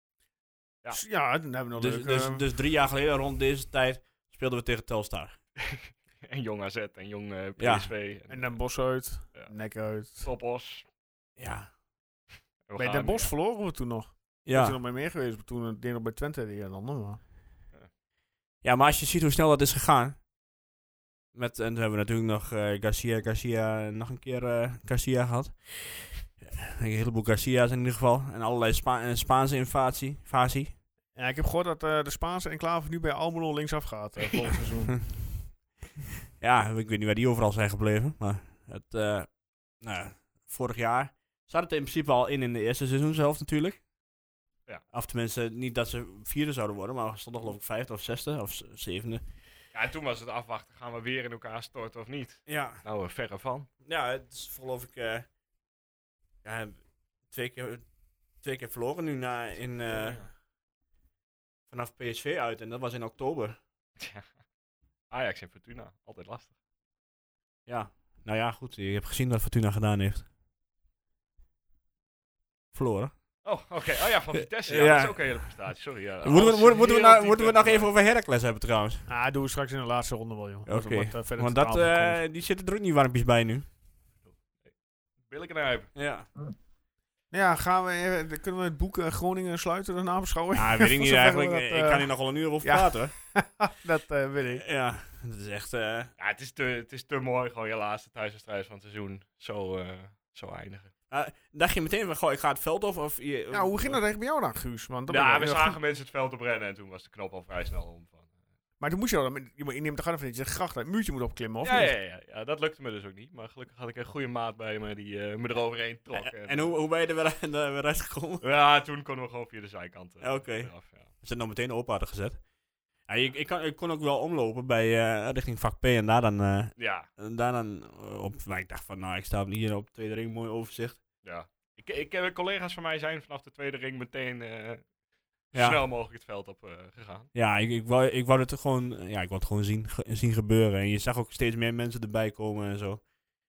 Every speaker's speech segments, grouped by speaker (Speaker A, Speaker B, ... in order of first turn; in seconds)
Speaker A: 0.9-2.5, 8.3-10.3, 12.8-17.2, 31.1-35.0, 79.1-82.2, 87.3-94.6, 103.5-105.8, 108.8-111.9
Speaker B: 1.8-5.4, 7.6-7.9, 11.4-11.7, 14.4-14.8, 18.6-20.2, 21.3-30.7, 36.4-43.8, 44.9-49.2, 52.5-52.8, 53.8-55.3, 56.4-60.3, 61.7-63.6, 67.7-70.2, 72.7-73.1, 74.7-75.4, 76.2-79.0, 80.7-83.7, 85.9-86.3, 90.5-93.1, 94.6-96.1, 101.1-104.0, 116.1-118.4, 120.2-122.4, 123.1-131.0, 135.5-135.8, 137.3-143.0
Speaker C: 5.6-9.5, 10.0-10.8, 12.7-13.3, 49.7-53.7, 59.9-60.3, 64.0-64.3, 65.1-66.5, 73.4-77.9, 84.2-84.7, 85.2-85.9, 96.2-100.9, 105.1-108.3, 111.6-116.7, 118.4-121.1, 126.8-127.1, 131.2-134.8, 135.5-137.3